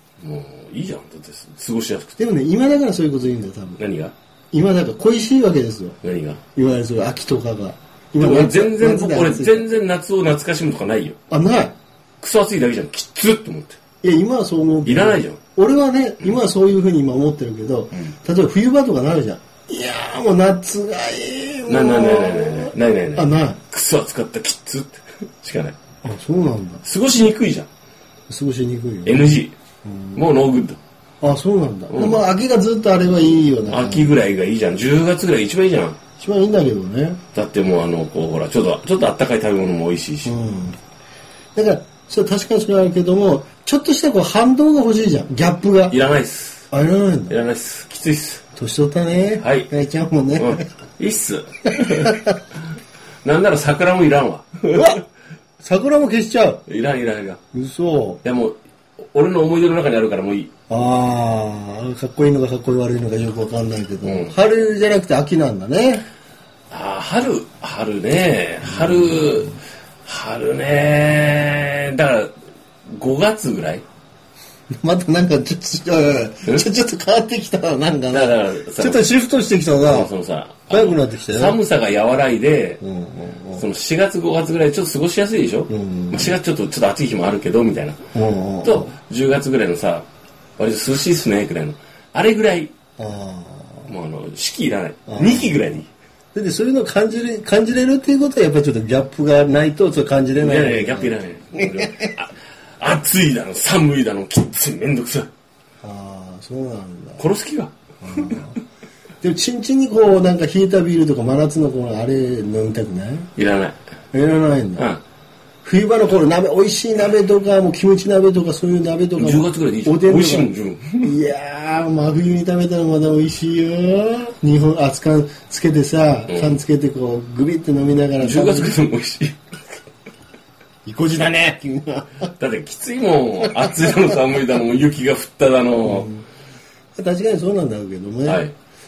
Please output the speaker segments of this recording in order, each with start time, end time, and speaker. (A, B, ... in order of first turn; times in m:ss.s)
0:00.2-0:02.2 A
0:02.2-0:03.8 B
0:03.8-0:04.1 A
0:04.5-0:06.0 B
0:06.0-0:06.4 A
0:06.5-0:09.8 B
0:08.2-0:11.2 A
0:11.3-0:11.8 B
0:12.2-0:13.8 A
0:14.0-0:23.6 B
0:14.8-0:15.4 A
0:21.7-0:25.8 A
0:26.0-0:26.8 B
0:26.8-0:27.7 A
0:28.3-0:29.3 B
0:29.0-0:29.5 A
0:29.8-0:30.2 B
0:30.1-0:30.8 A
0:31.2-0:34.1 B
0:31.9-0:32.2 A
0:33.7-0:36.0 A
0:36.2-0:37.2 B
0:37.3-0:40.4 A
0:40.2-0:40.8 B
0:41.5-0:46.0 B
0:45.9-0:46.6 A
0:46.7-0:47.4 B
0:47.3-0:48.4 A
0:48.5-0:50.7 B
0:49.4-0:49.7 A
0:50.4-0:52.2 A
0:51.8-0:52.3 B
0:53.2-0:55.0 A
0:54.7-0:55.0 B
0:55.6-0:56.6 B
0:56.6-0:57.4 A
0:57.5-0:58.2 B
0:58.2-0:58.6 A
0:59.1-1:00.5 A
1:00.7-1:06.0 B
1:04.0-1:04.3 A
1:06.7-1:12.3 A
1:12.9-1:13.8 A
1:14.8-1:20.1 B
1:18.1-1:19.1 A
1:19.8-1:22.8 A
1:20.7-1:21.6 B
1:22.8-1:23.6 B
1:23.6-1:28.0 A
1:25.7-1:26.3 B
1:28.1-1:28.9 B
1:28.6-1:30.0 A
1:30.6-1:32.7 A
1:33.0-1:33.9 B
1:33.9-1:35.9 A
1:35.1-1:35.6 B
1:36.3-1:42.1 B
1:40.4-1:45.3 A
1:45.8-1:47.2 B
1:47.2-1:47.7 A
1:48.0-1:48.6 B
1:49.2-1:53.3 B
1:53.4-1:53.8 A
1:54.1-1:54.9 B
1:55.6-2:08.8 B
1:59.2-2:01.2 A
2:06.3-2:06.6 A
2:08.2-2:09.6 A
2:10.8-2:12.3 B
2:12.4-2:16.1 A
2:13.6-2:14.1 B
2:15.8-2:16.2 B
2:17.0-2:18.4 B
2:18.2-2:18.5 A